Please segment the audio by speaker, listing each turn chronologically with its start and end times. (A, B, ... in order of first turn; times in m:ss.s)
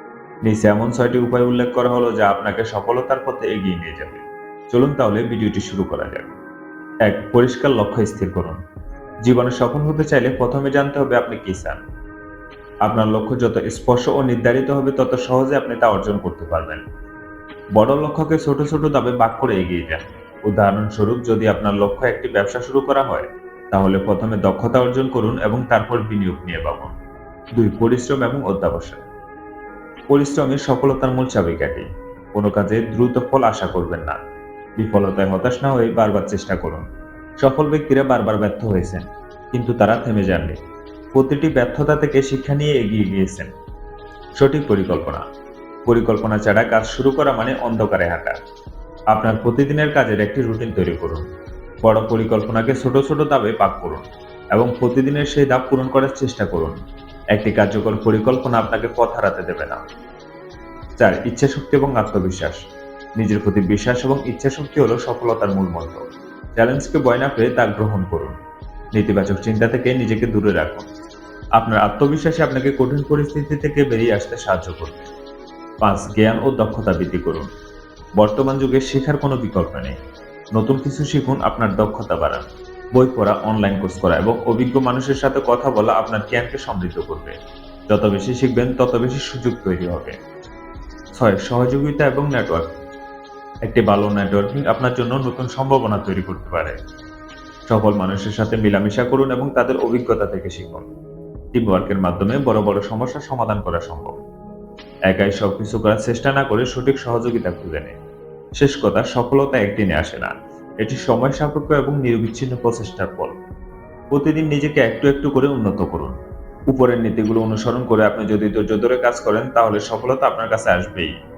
0:00.4-0:06.4 A
0:07.0-0:08.6 A
0:09.2-0:11.8 A
0:12.8-0:16.8 A
0:17.7-0:27.0 A
0:27.5-0:29.1 A
0:30.1-0:34.2 A
0:34.8-0:36.8 A
0:37.4-0:40.6 A
0:41.1-0:43.5 A
0:44.4-0:45.2 A
0:45.8-0:48.4 A
0:49.1-0:51.2 A
0:51.8-0:56.8 A
0:57.3-0:59.8 A
1:01.0-1:02.6 A
1:03.2-1:06.0 A
1:06.6-1:08.4 A
1:08.9-1:10.9 A
1:11.6-1:15.1 A
1:15.8-1:17.5 A
1:18.2-1:20.0 A
1:20.6-1:27.4 A
1:27.9-1:30.2 A
1:31.2-1:32.7 A
1:33.6-1:36.8 A
1:37.7-1:40.9 A
1:41.5-1:44.2 A
1:45.1-1:48.0 A
1:48.6-1:53.4 A
1:54.1-1:56.1 A
1:56.7-2:01.1 A